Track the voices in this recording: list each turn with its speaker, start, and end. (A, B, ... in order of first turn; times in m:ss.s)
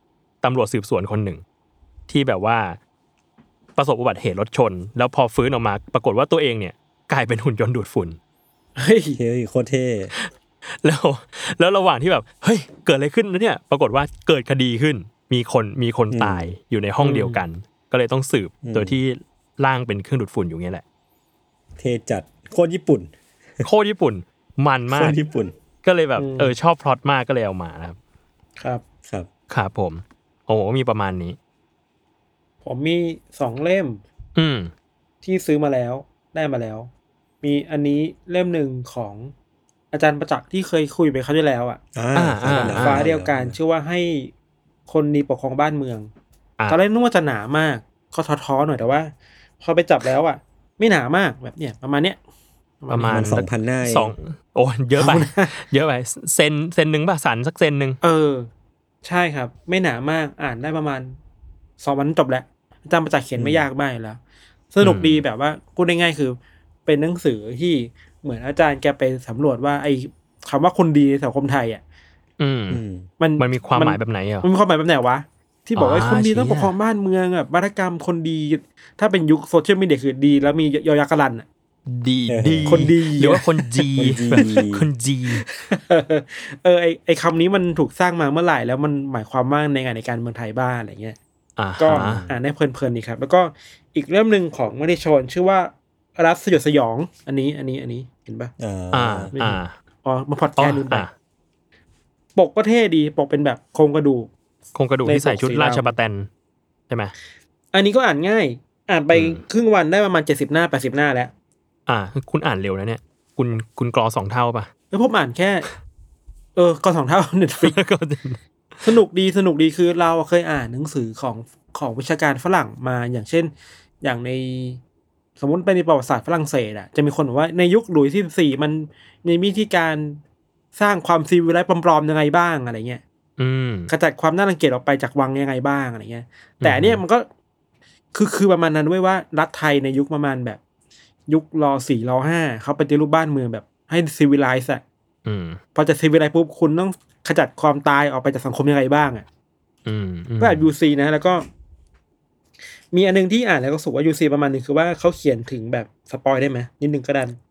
0:00.4-0:01.4 A
0:02.1-0:02.8 A
0:03.8-0:08.2 A
0:08.8-0:09.2 B
0:09.2-0:10.1 C
0:10.1-0:20.8 A
0:16.1-0:16.5 C
0:17.0-0:17.4 B
0:18.6-0:19.0 C
0:21.8-0:23.6 C
0:23.6-0:25.2 A
0:24.9-0:25.5 C
0:25.8-0:28.0 A
0:26.2-0:26.5 B
0:29.5-0:31.4 A
0:32.6-0:34.0 B
0:34.4-0:34.7 A
0:35.2-0:36.9 B
0:37.4-0:39.3 B
0:39.9-0:41.8 B
0:41.9-0:43.6 C
0:42.2-0:43.0 A
0:42.5-0:44.3 B
0:44.9-0:46.1 B
0:46.7-0:52.2 B
0:52.8-0:53.4 B
0:52.9-0:58.0 A
0:53.0-0:54.1 C
0:55.0-0:55.5 B
0:58.0-0:58.5 B
0:59.0-1:01.2 B
1:01.8-1:04.2 B
1:03.4-1:03.6 C
1:04.7-1:11.8 B
1:04.8-1:05.2 A
1:12.4-1:12.8 A
1:12.7-1:13.1 C
1:13.2-1:21.4 B
1:13.4-1:14.5 A
1:15.8-1:16.7 A
1:21.9-1:25.4 A
1:22.3-1:22.9 C
1:22.7-1:23.4 B
1:24.0-1:24.8 C
1:24.3-1:24.6 B
1:25.4-1:31.2 B
1:31.6-1:32.3 A
1:31.8-1:38.5 B
1:31.9-1:32.3 C
1:38.6-1:39.3 C
1:38.9-1:39.7 A
1:39.3-1:41.1 B
1:40.6-1:41.1 A
1:42.4-1:44.3 B
1:44.7-1:46.3 A
1:45.0-1:45.9 B
1:46.9-1:47.1 A
1:47.7-1:51.3 B
1:49.1-1:49.4 A
1:51.9-1:54.7 A
1:54.9-1:55.7 B
1:56.6-1:57.8 B
1:57.6-1:58.9 A
1:58.8-2:04.8 B
2:05.4-2:10.2 B
2:10.8-2:13.0 B
2:13.4-2:13.9 A
2:13.9-2:17.3 B
2:16.6-2:17.0 A
2:18.1-2:20.6 B
2:21.3-2:24.8 B
2:25.2-2:25.6 A
2:25.7-2:29.2 B
2:29.8-2:30.7 A
2:30.4-2:31.4 B
2:32.9-2:37.4 B